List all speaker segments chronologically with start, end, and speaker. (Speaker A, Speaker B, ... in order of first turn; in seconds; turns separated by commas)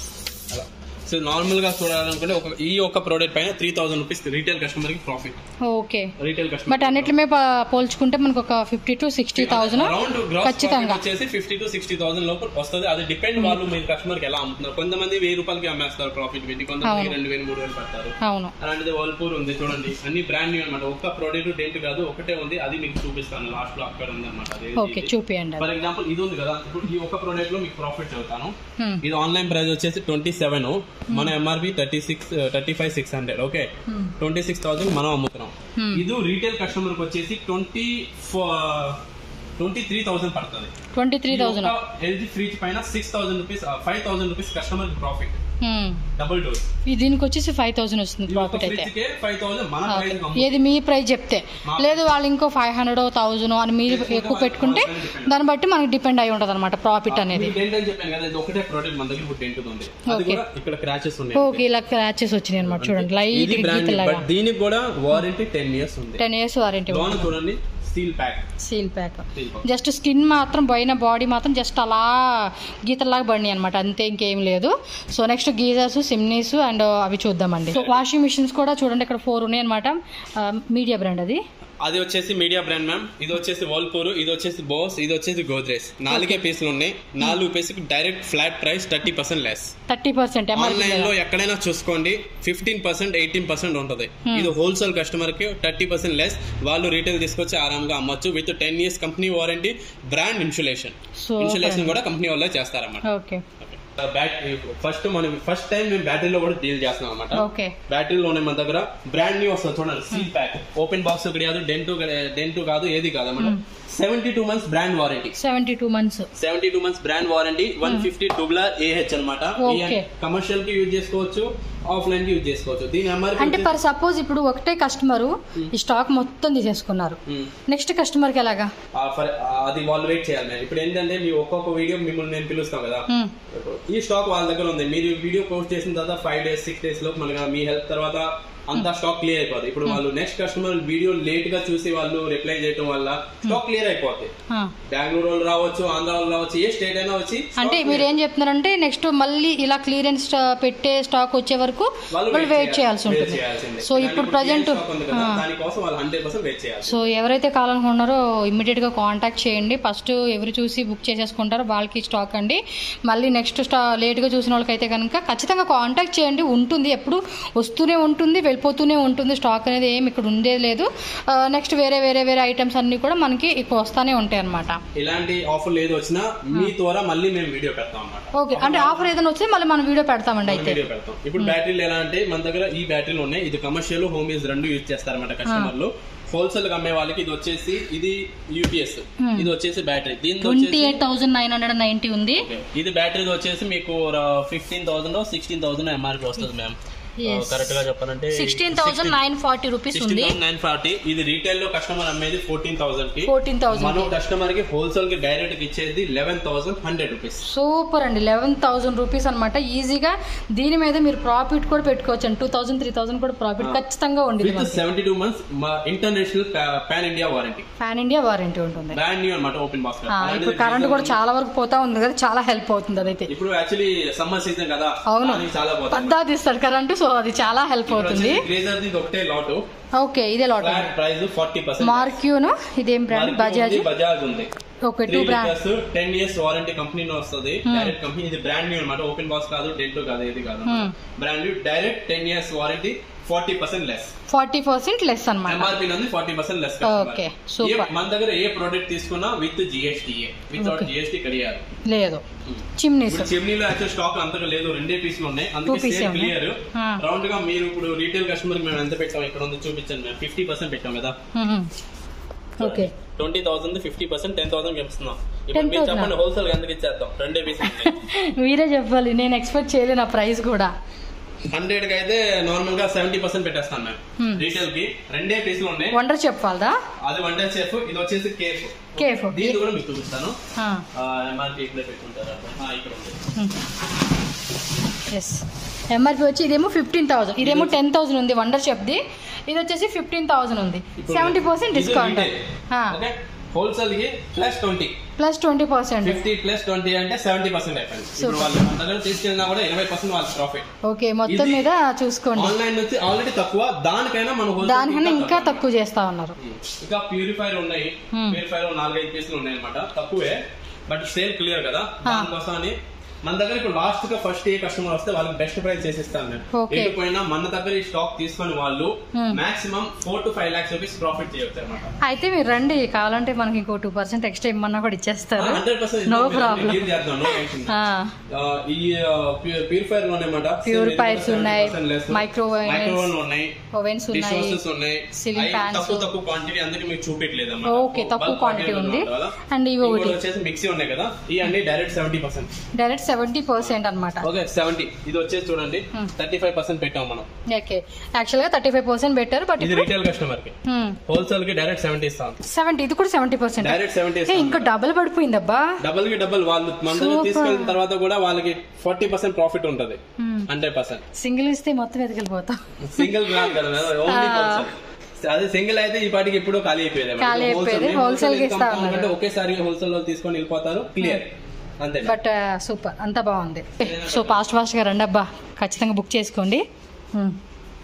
Speaker A: 0.5-5.4, Speaker B: 5.6-6.1, Speaker A: 6.2-7.1, Speaker B: 6.7-11.0, Speaker A: 9.3-39.0, Speaker B: 16.8-17.1, Speaker B: 18.2-18.5, Speaker B: 24.8-25.7, Speaker B: 33.9-34.1, Speaker B: 35.8-36.0, Speaker A: 39.6-40.7, Speaker B: 40.9-41.7, Speaker A: 41.3-45.4, Speaker B: 45.6-46.0, Speaker A: 46.2-46.6, Speaker B: 46.9-48.9, Speaker A: 48.3-50.6, Speaker B: 49.9-57.5, Speaker A: 51.6-52.0, Speaker A: 53.9-55.4, Speaker A: 57.1-61.6, Speaker B: 60.1-60.4, Speaker B: 61.3-64.3, Speaker A: 62.6-66.2, Speaker B: 66.2-67.3, Speaker A: 66.9-68.4, Speaker B: 68.6-81.4, Speaker A: 69.3-69.7, Speaker A: 77.7-78.0, Speaker A: 81.8-89.7, Speaker B: 86.1-86.4, Speaker B: 89.9-91.1, Speaker A: 90.5-103.0, Speaker B: 101.2-101.9, Speaker B: 103.0-103.4, Speaker A: 103.6-115.3, Speaker B: 107.3-107.7, Speaker B: 115.4-116.3, Speaker A: 116.4-123.7, Speaker B: 119.6-120.0, Speaker B: 123.4-128.7, Speaker A: 128.9-144.3, Speaker A: 144.9-148.1, Speaker B: 147.6-155.4, Speaker A: 152.1-157.1, Speaker B: 156.8-174.8, Speaker A: 174.9-179.1, Speaker B: 178.3-180.8, Speaker A: 180.4-191.0, Speaker B: 185.4-185.7, Speaker B: 189.2-189.5, Speaker B: 190.4-192.4, Speaker A: 192.3-199.2, Speaker B: 197.2-197.8, Speaker B: 198.3-200.4, Speaker A: 199.9-207.4, Speaker B: 203.3-204.1, Speaker B: 207.4-214.8, Speaker A: 214.4-217.7, Speaker B: 217.8-219.0, Speaker A: 218.9-221.2, Speaker B: 220.1-223.3, Speaker A: 223.3-226.2, Speaker B: 225.1-228.4, Speaker A: 227.9-229.6, Speaker B: 230.0-230.9, Speaker A: 230.6-232.2, Speaker B: 231.8-233.9, Speaker A: 233.1-234.5, Speaker B: 234.8-235.6, Speaker A: 235.1-244.1, Speaker B: 237.7-237.9, Speaker B: 240.7-240.9, Speaker B: 244.3-245.8, Speaker A: 245.4-251.6, Speaker B: 246.8-247.9, Speaker B: 250.6-250.9, Speaker B: 251.9-252.2, Speaker A: 252.5-261.1, Speaker B: 252.8-253.3, Speaker B: 255.7-257.0, Speaker B: 261.3-261.7, Speaker B: 262.6-262.9, Speaker A: 262.6-267.9, Speaker B: 265.5-266.1, Speaker B: 267.6-270.7, Speaker A: 271.5-276.0, Speaker B: 274.2-274.4, Speaker B: 275.9-276.8, Speaker A: 277.0-280.4, Speaker B: 279.0-279.6, Speaker B: 280.6-280.8, Speaker A: 280.9-283.2, Speaker B: 285.1-292.9, Speaker A: 287.4-287.8, Speaker A: 291.0-292.4, Speaker A: 292.9-294.9, Speaker B: 295.2-296.2, Speaker A: 296.0-300.6, Speaker B: 298.2-298.5, Speaker B: 300.8-302.6, Speaker A: 301.2-301.7, Speaker A: 302.4-305.6, Speaker B: 304.6-306.4, Speaker A: 306.4-321.9, Speaker B: 308.1-308.4, Speaker B: 312.0-312.3, Speaker B: 316.5-316.9, Speaker B: 319.1-319.4, Speaker B: 322.0-328.1, Speaker A: 325.4-327.8, Speaker A: 328.3-333.5, Speaker B: 330.6-333.1, Speaker B: 333.7-334.6, Speaker A: 334.1-342.5, Speaker B: 335.1-336.1, Speaker B: 337.6-340.2, Speaker B: 342.8-344.2, Speaker A: 343.6-347.3, Speaker B: 347.5-349.9, Speaker A: 349.6-350.5, Speaker B: 350.6-351.0, Speaker A: 351.1-352.4, Speaker B: 352.5-355.8, Speaker A: 353.6-354.7, Speaker A: 355.8-361.0, Speaker B: 356.9-357.8, Speaker B: 360.2-360.5, Speaker B: 361.2-364.7, Speaker A: 362.8-372.1, Speaker B: 367.2-369.1, Speaker B: 372.0-376.6, Speaker A: 373.8-374.6